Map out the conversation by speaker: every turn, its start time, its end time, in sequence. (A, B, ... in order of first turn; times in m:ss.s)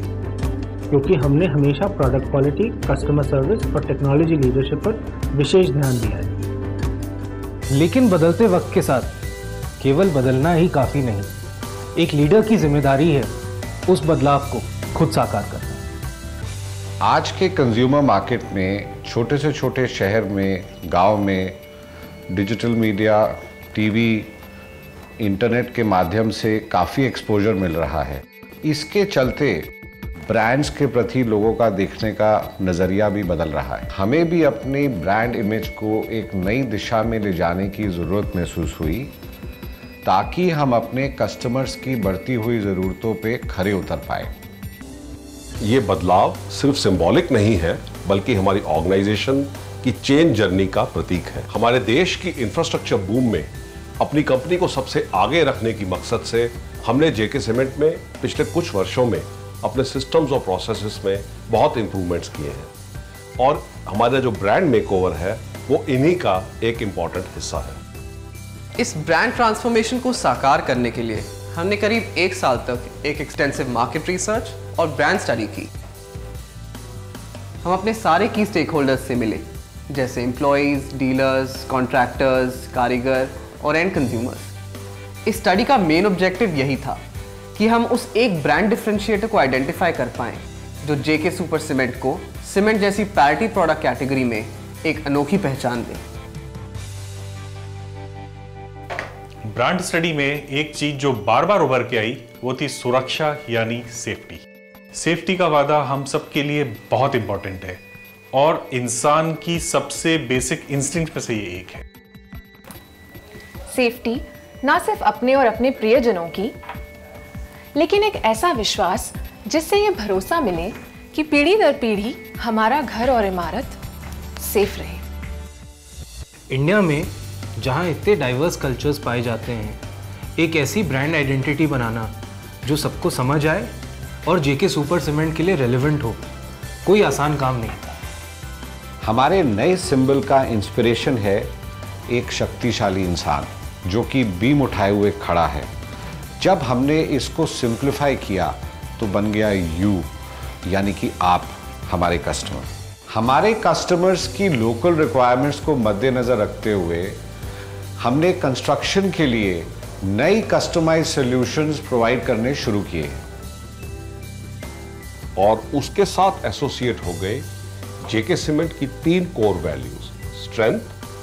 0:00.9-0:06.3 A
0:07.7-0:09.1 B
0:09.8-0:11.3 B
0:12.0-0:13.3 B
0:13.9-0:15.8 B
0:17.0-0:21.6 C
0:22.3-0:24.3 C
0:25.2-0:29.7 C
0:30.3-0:39.1 C
0:40.0-0:44.3 C
0:45.6-1:02.7 D
1:03.4-1:07.8 D
1:08.8-1:15.7 E
1:17.6-1:24.5 E
1:25.2-1:27.0 E
1:27.6-1:36.0 E
1:39.5-1:44.4 F
1:44.9-1:47.8 F
1:48.3-1:51.8 F
1:53.7-1:56.5 G
1:57.8-2:03.8 G
2:04.4-2:05.0 G
2:06.5-2:09.8 B
2:10.4-2:12.1 B
2:12.6-2:13.7 B
2:14.2-2:16.2 B
2:16.8-2:18.0 B
2:19.0-2:21.5 C
2:22.1-2:25.7 C
2:26.4-2:30.1 C
2:30.7-2:37.2 C
2:38.0-2:43.2 C
2:45.4-2:47.4 D
2:48.0-2:50.9 D